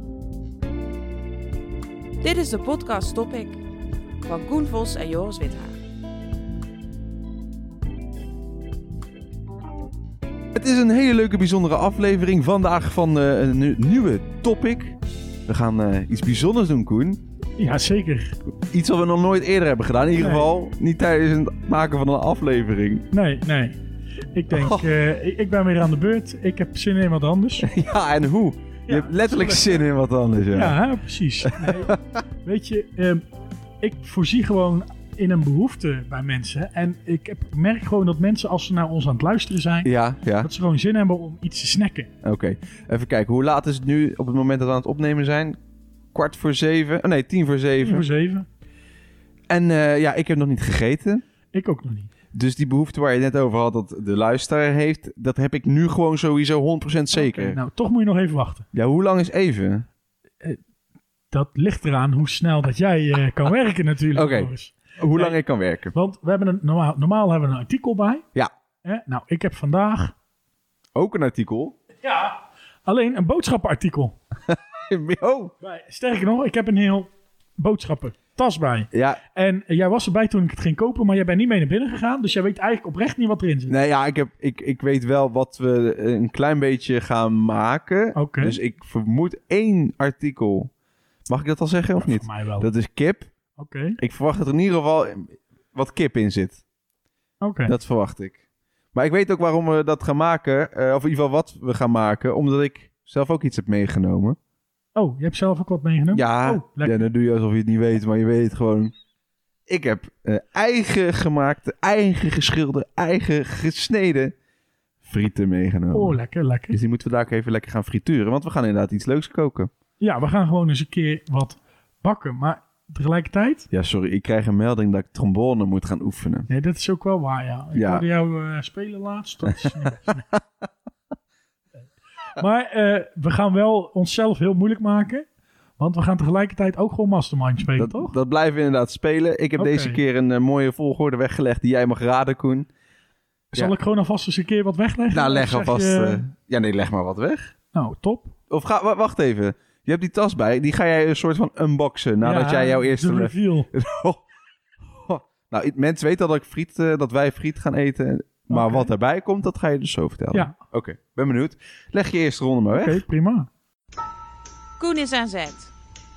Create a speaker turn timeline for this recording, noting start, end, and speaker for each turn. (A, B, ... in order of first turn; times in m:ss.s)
0:02.2-0:03.6 A
0:04.2-0:05.7 A
0:10.5-0:17.2 B
0:17.6-0:18.4 C
0:18.6-0:23.0 B
0:20.2-0:20.5 C
0:23.1-0:23.8 C
0:24.3-0:27.7 C
0:24.5-0:24.9 B
0:27.6-0:30.8 B
0:28.9-0:29.8 C
0:30.5-0:33.2 C
0:31.4-0:32.2 B
0:33.8-0:42.1 C
0:39.8-0:40.5 B
0:42.2-0:45.6 B
0:46.1-0:48.1 B
0:47.8-0:48.5 C
0:49.5-0:51.2 B
0:51.5-0:52.1 C
0:52.3-0:57.6 B
0:57.1-0:58.6 C
0:58.7-0:59.9 B
1:01.3-1:05.4 C
1:04.1-1:05.9 B
1:05.9-1:08.2 C
1:08.8-1:10.1 C
1:10.9-1:11.8 B
1:12.0-1:14.2 C
1:14.5-1:15.5 B
1:15.6-1:23.7 C
1:18.9-1:19.2 B
1:23.7-1:30.7 B
1:28.1-1:28.6 C
1:31.3-1:33.3 B
1:32.0-1:32.7 C
1:33.6-1:34.0 C
1:34.0-1:36.6 B
1:37.4-1:37.7 C
1:37.6-1:38.4 B
1:38.9-1:44.4 B
1:44.9-1:47.0 C
1:46.1-1:48.9 B
1:49.7-1:54.3 B
1:55.0-1:56.2 B
1:55.9-1:56.8 C
1:56.7-1:59.7 B
2:00.0-2:03.7 C
2:03.7-2:06.5 B
2:06.5-2:10.2 C
2:07.7-2:08.0 B
2:09.6-2:10.4 B
2:12.3-2:15.2 C
2:15.8-2:18.1 C
2:17.8-2:22.7 B
2:19.6-2:20.0 C
2:23.5-2:26.2 C
2:25.1-2:27.5 B
2:27.7-2:28.3 C
2:28.5-2:34.2 B
2:32.2-2:33.7 C
2:34.8-2:43.0 B
2:38.5-2:38.9 C
2:40.3-2:40.6 C
2:42.7-2:43.5 C
2:44.8-2:45.7 A